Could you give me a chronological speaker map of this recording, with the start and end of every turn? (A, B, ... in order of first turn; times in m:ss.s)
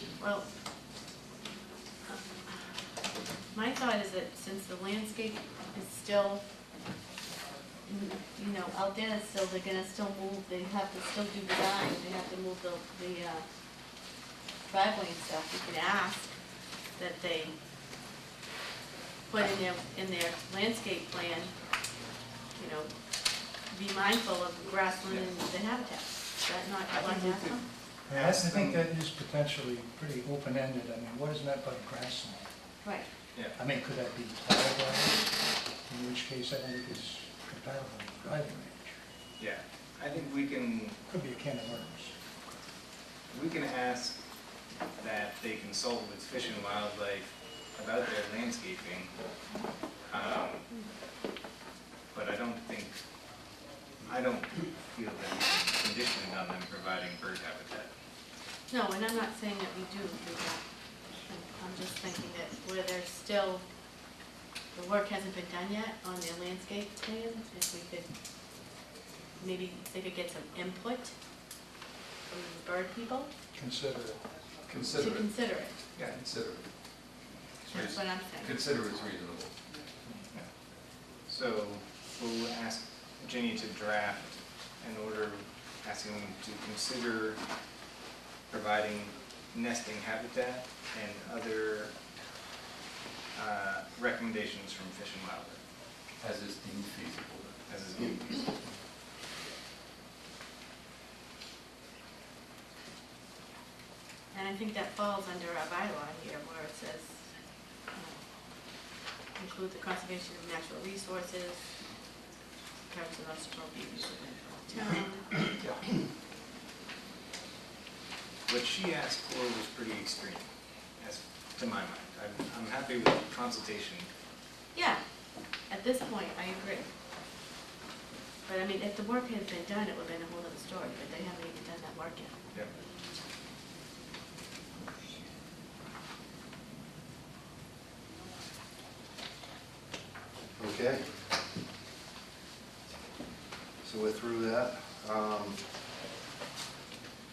0:00.2-0:00.5 A
0:03.5-0:06.4 A
0:07.9-0:13.4 A
0:14.7-0:16.4 A
0:17.0-0:17.6 A
0:19.3-0:21.6 A
0:22.5-0:27.7 A
0:26.9-0:28.8 B
0:28.1-0:32.6 C
0:32.8-0:33.1 A
0:33.6-0:39.0 C
0:39.4-0:41.0 B
0:41.1-0:42.1 C
0:43.3-0:44.2 B
0:45.0-0:49.1 B
0:50.1-0:50.7 B
0:52.1-0:53.0 B
0:54.0-0:57.9 B
0:58.7-1:00.6 A
1:01.2-1:03.6 A
1:04.7-1:08.1 A
1:09.4-1:11.2 A
1:12.3-1:13.3 A
1:13.5-1:14.4 C
1:14.7-1:16.7 D
1:14.9-1:15.8 A
1:17.7-1:19.6 D
1:17.8-1:18.5 A
1:21.3-1:27.4 B
1:28.5-1:32.0 B
1:33.3-1:35.6 B
1:36.2-1:38.4 D
1:37.7-1:38.3 B
1:44.3-1:47.3 A
1:47.9-1:48.2 A
1:49.4-1:51.7 A
1:52.9-1:55.4 A
1:55.5-1:55.8 B
1:58.5-2:04.1 B
2:04.7-2:05.0 A
2:05.7-2:06.9 A
2:08.5-2:12.4 A
2:20.6-2:21.2 E
2:23.8-2:25.6 E